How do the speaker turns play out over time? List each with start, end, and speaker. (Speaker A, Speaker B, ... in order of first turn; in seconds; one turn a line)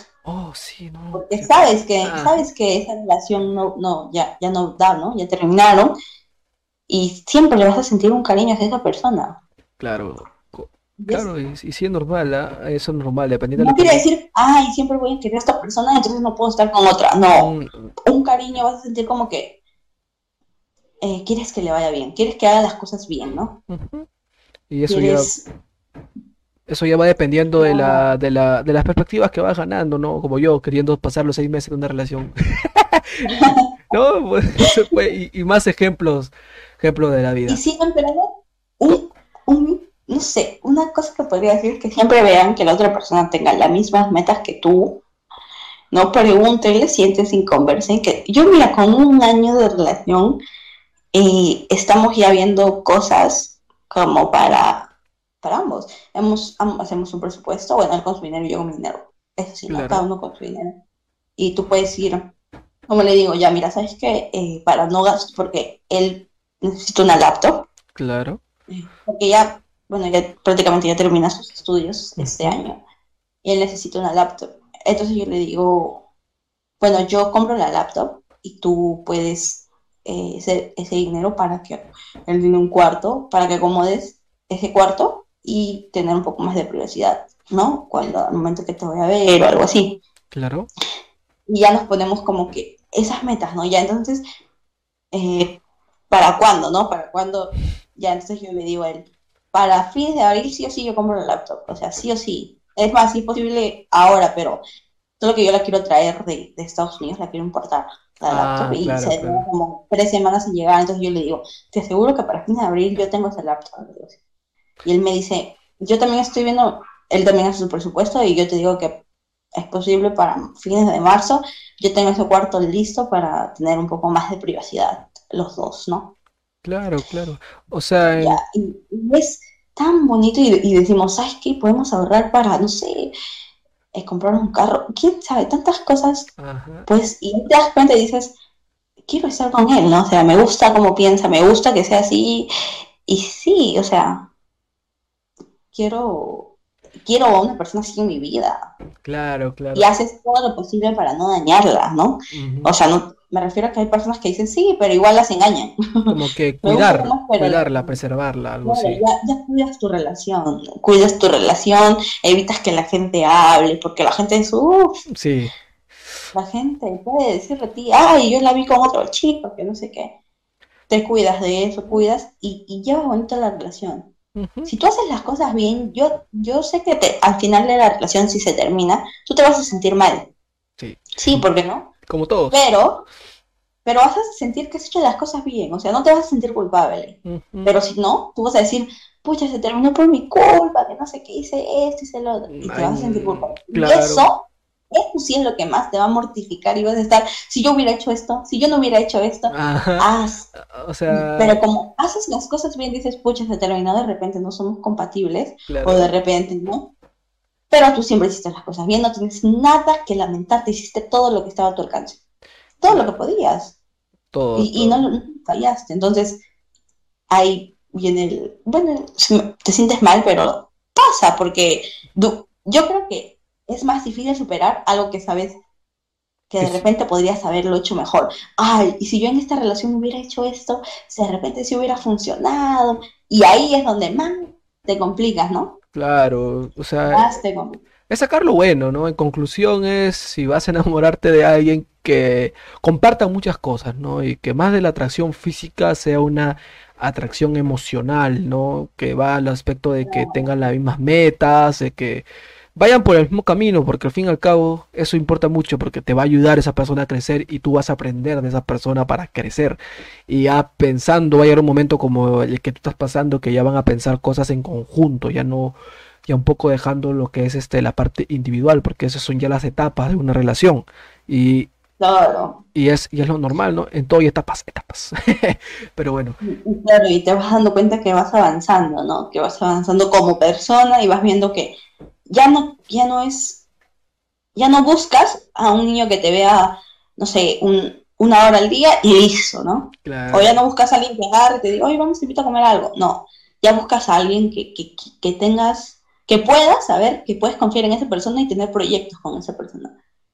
Speaker A: 0.2-2.4
Speaker B: 1.1-5.9
Speaker B: 6.9-9.3
Speaker A: 9.8-14.0
Speaker B: 11.0-11.3
Speaker B: 13.6-17.5
Speaker A: 17.4-17.9
Speaker B: 18.1-19.5
Speaker B: 21.0-23.5
Speaker A: 23.7-24.1
Speaker A: 24.7-25.3
Speaker B: 24.9-25.4
Speaker A: 26.7-37.6
Speaker B: 27.6-28.0
Speaker B: 33.3-33.6
Speaker B: 37.5-38.3
Speaker B: 38.8-44.9
Speaker B: 45.9-50.4
Speaker B: 51.1-54.9
Speaker B: 55.4-60.7
Speaker A: 59.7-60.0
Speaker B: 61.4-62.2
Speaker B: 62.9-67.7
Speaker A: 68.0-68.4
Speaker B: 68.7-72.8
Speaker A: 72.2-72.6
Speaker B: 73.4-76.0
Speaker B: 76.8-90.0
Speaker A: 90.3-90.7
Speaker B: 91.5-94.2
Speaker B: 95.1-95.5
Speaker B: 96.1-104.6
Speaker B: 105.2-114.1
Speaker A: 108.3-109.4
Speaker B: 114.8-118.9
Speaker B: 119.5-126.0
Speaker A: 126.6-128.4
Speaker B: 128.0-133.1
Speaker B: 133.9-136.3
Speaker A: 136.4-136.9
Speaker B: 136.9-138.3
Speaker B: 139.1-142.5
Speaker B: 143.1-144.2
Speaker B: 145.7-146.5
Speaker B: 147.0-148.6
Speaker A: 149.0-149.9
Speaker B: 149.7-156.1
Speaker A: 152.3-152.7
Speaker A: 156.1-159.0
Speaker B: 156.6-157.9
Speaker B: 158.6-164.9
Speaker A: 165.1-165.5
Speaker B: 166.3-170.1
Speaker B: 170.9-174.0
Speaker A: 174.3-174.7
Speaker B: 174.7-180.3
Speaker A: 180.8-181.4
Speaker B: 181.2-181.9
Speaker A: 182.1-182.6
Speaker B: 182.5-183.0
Speaker B: 183.8-194.4
Speaker A: 187.2-187.7
Speaker A: 192.5-194.3
Speaker B: 194.9-200.4
Speaker A: 199.5-201.6
Speaker B: 201.1-206.8
Speaker A: 205.7-206.1
Speaker B: 207.7-212.2
Speaker B: 212.8-213.7
Speaker A: 212.9-213.1
Speaker A: 214.3-215.0
Speaker B: 214.6-216.4
Speaker B: 217.3-225.6
Speaker B: 226.5-235.7
Speaker A: 235.9-237.4
Speaker B: 237.1-237.8
Speaker A: 238.1-252.2
Speaker B: 250.0-250.4
Speaker A: 252.8-271.7
Speaker B: 272.0-272.6
Speaker A: 272.7-276.4
Speaker B: 276.4-281.7
Speaker B: 282.3-283.6
Speaker B: 284.6-299.9
Speaker A: 290.0-290.6